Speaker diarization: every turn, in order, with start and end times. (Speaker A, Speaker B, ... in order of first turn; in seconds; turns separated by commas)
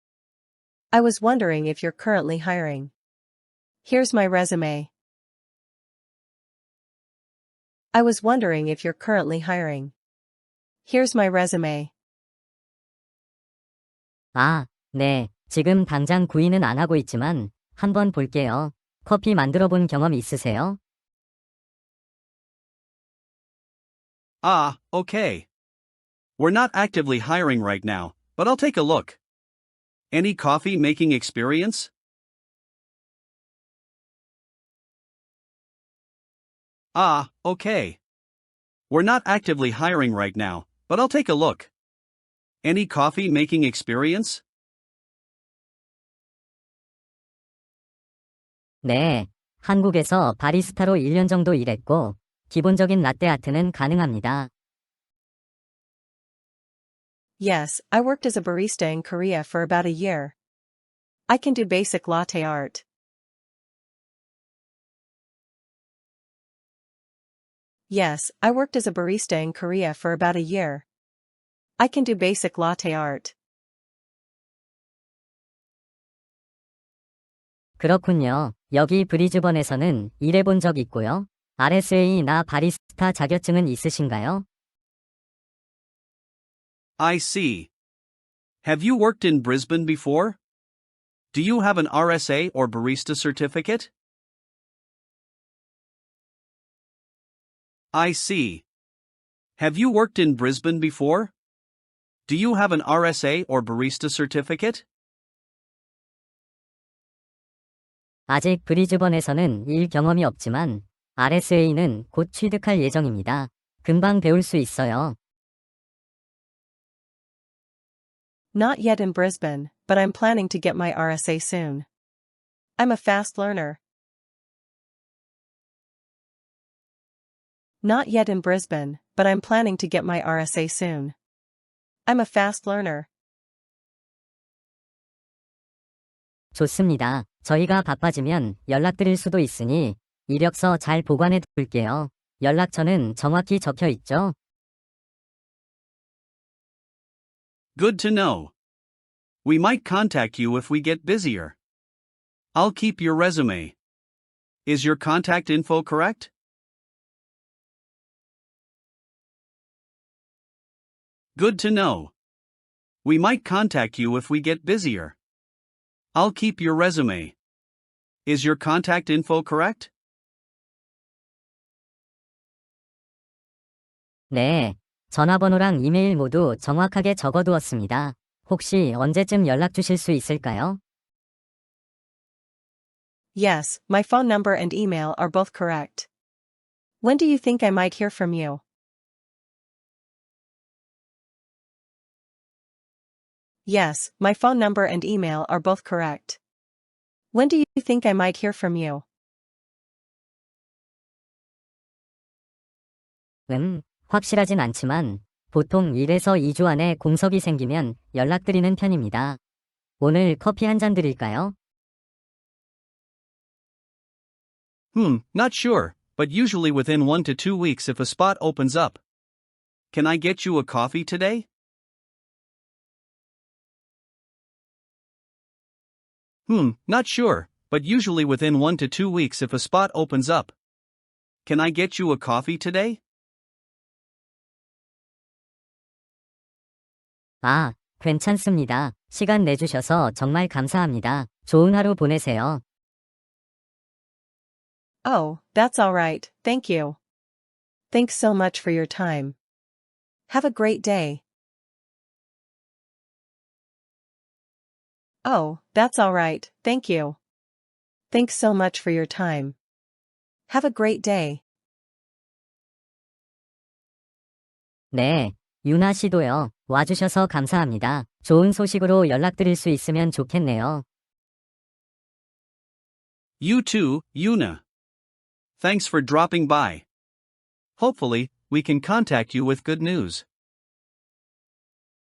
Speaker A: 0.9-2.9, Speaker A: 3.8-4.9, Speaker A: 7.9-9.9, Speaker A: 10.8-11.9, Speaker B: 14.3-20.8, Speaker C: 24.4-25.5, Speaker C: 26.4-29.2, Speaker C: 30.1-31.9, Speaker C: 36.9-38.0, Speaker C: 38.9-41.7, Speaker C: 42.6-44.4, Speaker B: 48.8-54.5, Speaker A: 57.4-60.3, Speaker A: 61.3-62.8, Speaker A: 67.9-70.8, Speaker A: 71.8-73.3, Speaker B: 77.8-84.4, Speaker C: 87.0-87.7, Speaker C: 88.6-90.4, Speaker C: 91.3-93.9, Speaker C: 97.9-98.6, Speaker C: 99.6-101.3, Speaker C: 102.3-104.8, Speaker B: 108.3-115.2, Speaker A: 118.5-121.8, Speaker A: 122.8-123.8, Speaker A: 127.8-131.1, Speaker A: 132.1-133.1, Speaker B: 136.5-144.3, Speaker C: 147.8-148.5, Speaker C: 149.4-151.6, Speaker C: 152.5-153.8, Speaker C: 154.7-156.3, Speaker C: 161.3-162.1, Speaker C: 163.0-165.2, Speaker C: 166.1-167.3, Speaker C: 168.2-169.9, Speaker B: 174.3-180.8, Speaker A: 183.3-186.1, Speaker A: 187.0-188.6, Speaker A: 193.7-196.4, Speaker A: 197.3-199.0, Speaker B: 203.5-209.4, Speaker B: 210.0-211.5, Speaker C: 214.9-219.0, Speaker C: 219.9-221.5, Speaker C: 226.5-230.5, Speaker C: 231.4-233.0, Speaker B: 237.4-242.6, Speaker A: 245.0-247.0, Speaker A: 247.9-249.3, Speaker A: 250.3-251.2, Speaker A: 255.2-257.2, Speaker A: 258.1-259.5, Speaker A: 260.5-261.4, Speaker B: 264.9-270.8, Speaker C: 273.4-274.6, Speaker C: 275.6-276.8, Speaker C: 277.8-280.2